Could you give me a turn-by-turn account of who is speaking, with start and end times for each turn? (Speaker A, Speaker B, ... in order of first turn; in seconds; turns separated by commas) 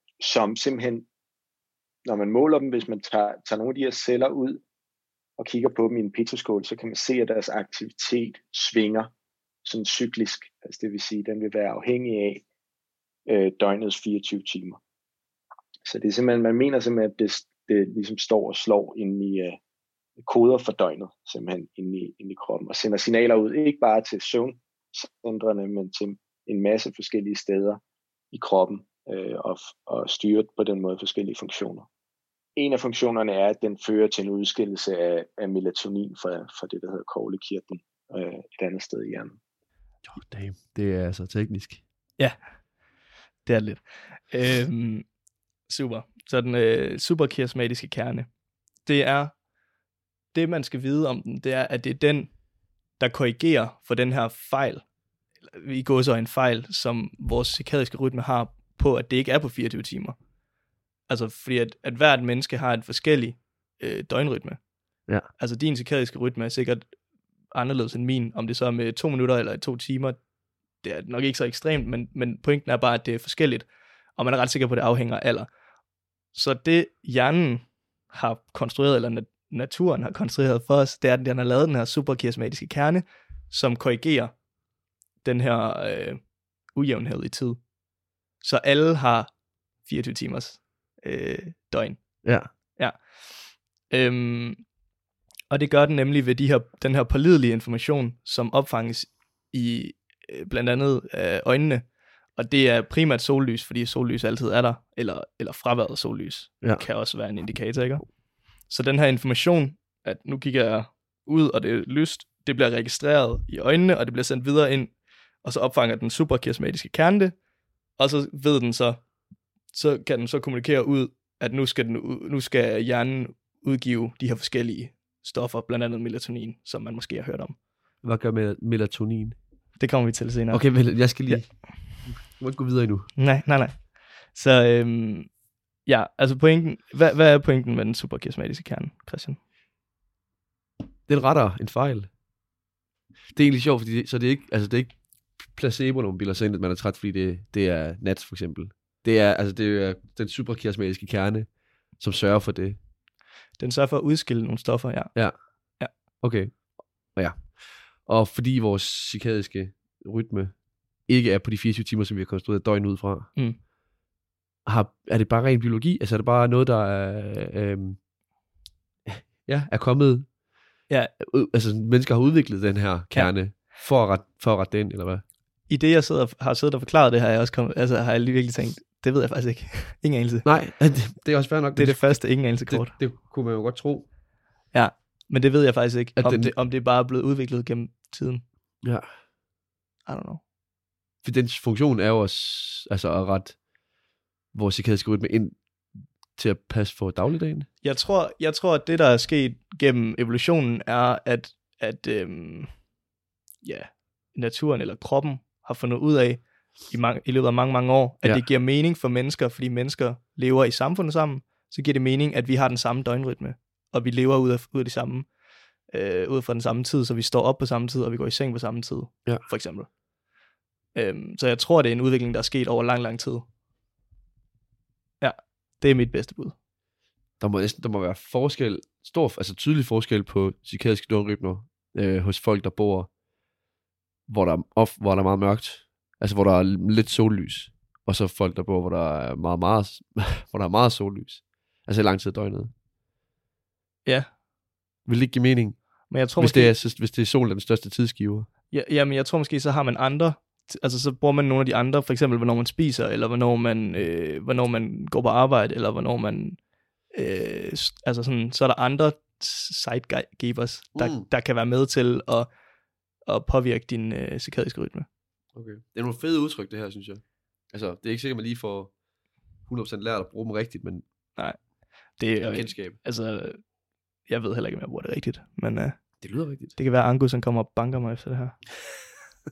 Speaker A: 0.2-1.1, Speaker A: 2.0-4.6, Speaker A: 5.4-9.1, Speaker A: 9.6-12.4, Speaker A: 13.3-14.8, Speaker A: 15.8-19.6, Speaker A: 20.2-27.8, Speaker A: 28.3-31.9, Speaker A: 32.6-39.4, Speaker B: 40.0-41.8, Speaker C: 42.2-42.6, Speaker C: 43.5-45.1, Speaker C: 45.7-48.3, Speaker C: 48.8-49.4, Speaker C: 50.3-52.3, Speaker C: 53.0-54.9, Speaker C: 55.5-60.2, Speaker C: 61.1-64.6, Speaker C: 65.3-66.9, Speaker C: 67.5-70.2, Speaker C: 70.8-75.5, Speaker C: 76.3-84.4, Speaker C: 85.2-87.6, Speaker C: 88.4-94.7, Speaker B: 92.2-92.5, Speaker C: 95.5-117.4, Speaker C: 118.0-119.1, Speaker C: 119.7-127.6, Speaker B: 128.0-129.4, Speaker C: 129.8-131.5, Speaker B: 130.5-133.1, Speaker C: 133.2-135.3, Speaker C: 135.8-139.4, Speaker B: 141.1-142.1, Speaker B: 143.3-152.8, Speaker C: 153.6-155.2, Speaker B: 156.2-163.3, Speaker B: 164.7-168.0, Speaker B: 169.1-170.3, Speaker B: 171.2-175.2, Speaker C: 175.7-180.5, Speaker B: 180.4-184.1, Speaker C: 181.7-183.0, Speaker C: 184.7-188.4, Speaker B: 186.2-186.5, Speaker B: 188.8-189.1, Speaker C: 190.1-190.4, Speaker B: 191.2-193.6, Speaker B: 194.5-195.7, Speaker B: 196.3-197.7, Speaker C: 197.8-202.7, Speaker C: 203.6-215.3, Speaker C: 215.9-219.9, Speaker C: 220.9-223.5, Speaker C: 225.2-226.6, Speaker B: 227.4-233.1, Speaker B: 234.3-242.7, Speaker B: 245.1-248.5, Speaker C: 246.1-246.8, Speaker C: 248.7-256.6, Speaker C: 257.1-262.5, Speaker B: 260.9-261.3, Speaker C: 263.2-265.1, Speaker B: 265.6-268.9, Speaker B: 269.6-271.0, Speaker C: 271.4-271.6, Speaker C: 272.1-273.7, Speaker B: 272.4-273.0, Speaker C: 274.2-276.2, Speaker B: 276.2-276.8, Speaker C: 276.8-278.7